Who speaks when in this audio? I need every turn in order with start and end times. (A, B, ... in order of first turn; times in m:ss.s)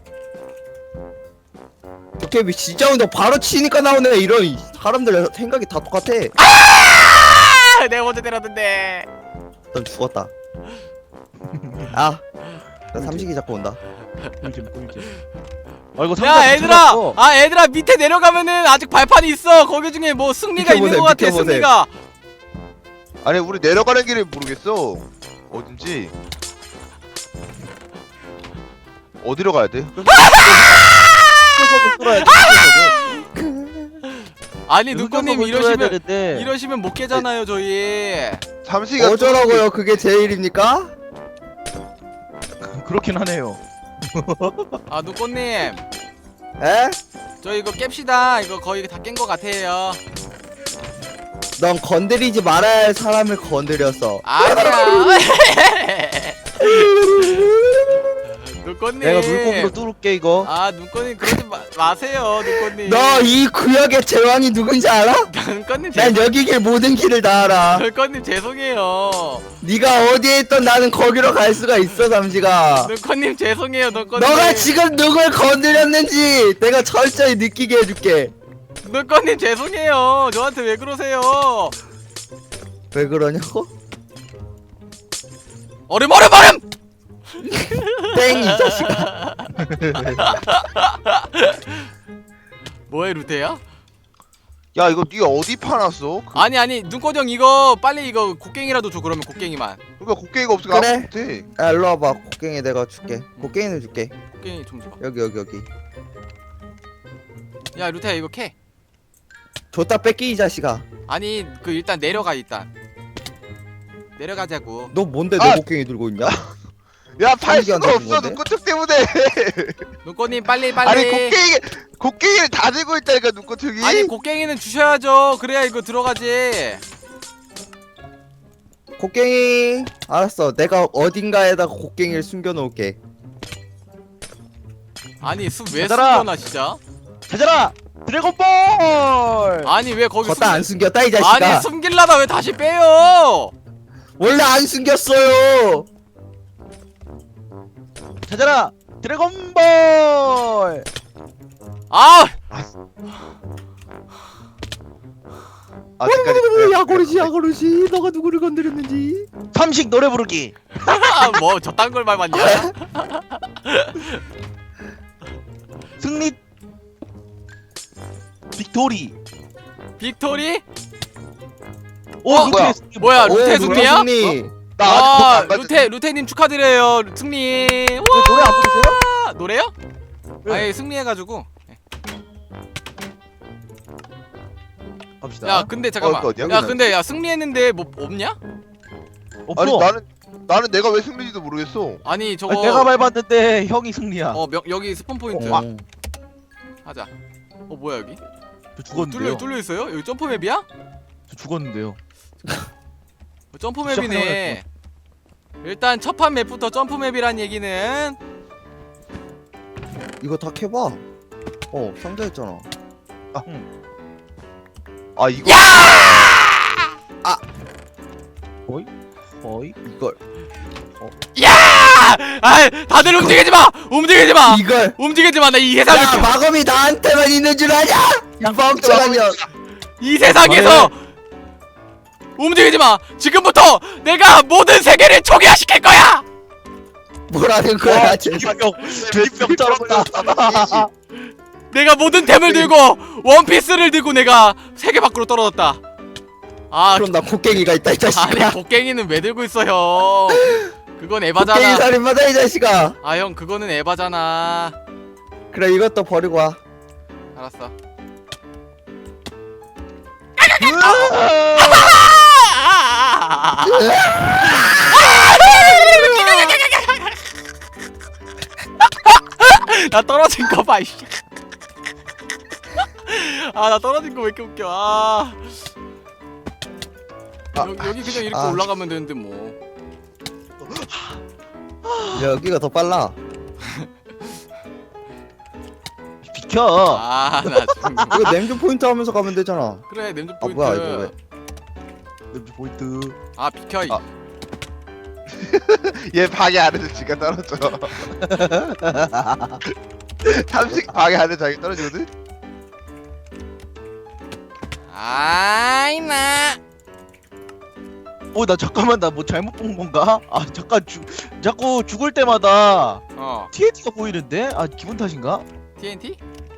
0:02.2-0:06.3 A
0:06.4-0:09.1 B
0:09.7-0:10.3 A
0:11.5-0:12.0 C
0:11.9-0:12.2 A
0:12.9-0:13.8 A
0:13.0-0:13.2 C
0:14.4-0:15.2 C
0:16.0-0:17.2 C
0:16.2-0:21.9 B
0:20.6-0:21.7 A
0:23.2-0:26.1 D
0:29.2-0:30.4 D
0:30.1-0:31.6 B
0:30.3-0:30.8 C
0:31.4-0:33.0 C
0:32.2-0:33.2 B
0:33.3-0:34.0 A
0:34.1-0:38.4 B
0:34.9-0:36.5 C
0:38.6-0:39.6 D
0:39.0-0:40.9 A
0:42.6-0:44.8 C
0:44.9-0:45.8 B
0:46.6-0:47.0 A
0:47.4-0:50.0 B
0:51.6-0:55.3 A
0:54.2-0:57.5 B
0:56.6-0:58.2 A
0:58.3-0:59.7 B
0:59.0-1:00.5 C
1:00.4-1:03.4 B
1:02.6-1:05.3 A
1:05.3-1:06.3 B
1:05.9-1:07.8 A
1:07.7-1:09.5 B
1:09.6-1:12.9 A
1:12.8-1:14.7 B
1:14.2-1:18.3 A
1:18.8-1:21.8 B
1:22.9-1:23.7 A
1:25.9-1:26.6 B
1:27.4-1:29.1 A
1:27.8-1:29.5 B
1:29.9-1:30.2 A
1:30.1-1:31.9 B
1:32.9-1:33.6 B
1:34.7-1:36.4 D
1:36.3-1:39.8 B
1:40.0-1:41.5 D
1:40.7-1:44.1 A
1:44.4-1:45.0 B
1:45.0-1:45.7 A
1:47.7-1:48.5 B
1:49.7-1:50.8 A
1:51.1-1:52.7 B
1:54.2-1:54.9 B
1:54.9-1:56.4 A
1:56.2-1:56.5 D
1:57.2-1:59.9 D
1:57.5-1:58.4 A
2:00.0-2:01.4 B
2:00.8-2:04.1 D
2:03.8-2:06.8 B
2:09.0-2:13.0 A
2:15.2-2:16.8 B
2:15.8-2:16.3 C
2:17.3-2:19.7 C
2:19.6-2:23.5 B
2:20.2-2:21.7 A
2:24.2-2:25.9 A
2:28.3-2:30.8 C
2:31.9-2:32.4 B
2:36.0-2:37.3 D
2:36.0-2:39.3 A
2:39.5-2:40.6 C
2:40.8-2:44.2 B
2:42.3-2:42.7 A
2:46.0-2:46.4 C
2:48.5-2:49.1 C
2:50.0-2:50.6 B
2:52.2-2:54.4 C
2:52.3-2:54.1 B
2:52.4-2:52.8 D
2:53.2-2:54.5 A
2:54.8-2:55.8 D
2:54.8-2:59.7 B
2:58.1-2:59.0 C
3:00.4-3:00.7 C
3:00.4-3:01.8 B
3:05.2-3:05.7 C
3:05.4-3:08.4 B
3:06.0-3:06.7 D
3:06.4-3:06.9 A
3:09.5-3:09.9 C
3:09.6-3:12.0 D
3:12.0-3:12.9 B
3:12.5-3:14.4 C
3:14.3-3:15.6 B
3:15.3-3:15.8 A
3:16.8-3:17.1 B
3:17.7-3:18.2 B
3:18.8-3:19.4 C
3:18.9-3:20.6 B
3:21.3-3:22.0 C
3:23.5-3:24.6 B
3:23.8-3:24.6 C
3:25.6-3:28.2 B
3:30.2-3:31.0 A
3:31.7-3:32.7 A
3:35.2-3:36.3 D
3:35.4-3:36.9 B
3:39.4-3:39.7 C
3:39.8-3:40.2 A
3:41.3-3:46.3 B
3:43.0-3:43.3 A
3:44.4-3:45.0 A
3:45.9-3:49.4 A
3:48.4-3:49.5 D
3:50.0-3:51.0 B
3:50.4-3:50.9 C
3:52.4-3:56.2 B
3:57.3-3:58.5 A
3:57.8-4:00.9 C
3:58.8-4:00.9 D
4:01.7-4:05.8 B
4:06.7-4:11.9 B
4:06.9-4:08.6 A
4:11.4-4:13.0 A
4:13.0-4:14.8 B
4:15.5-4:16.6 A
4:17.3-4:17.7 B
4:20.4-4:23.9 B
4:20.6-4:22.0 C
4:23.6-4:26.5 A
4:24.4-4:27.2 B
4:28.8-4:31.2 B
4:32.8-4:35.6 B
4:37.5-4:38.6 A
4:37.6-4:39.6 B
4:40.6-4:41.2 C
4:41.8-4:42.3 C
4:42.1-4:43.2 A
4:43.6-4:43.9 B
4:46.2-4:48.1 C
4:46.9-4:48.2 B
4:48.1-4:49.8 A
4:49.9-4:51.1 B
4:50.4-4:51.1 A
4:52.3-4:53.2 C
4:53.4-4:54.0 B
4:55.3-4:58.1 D
4:58.2-4:59.6 C
5:00.2-5:02.1 D
5:04.9-5:06.6 B
5:08.3-5:15.4 C
5:13.2-5:13.5 B
5:15.8-5:16.2 B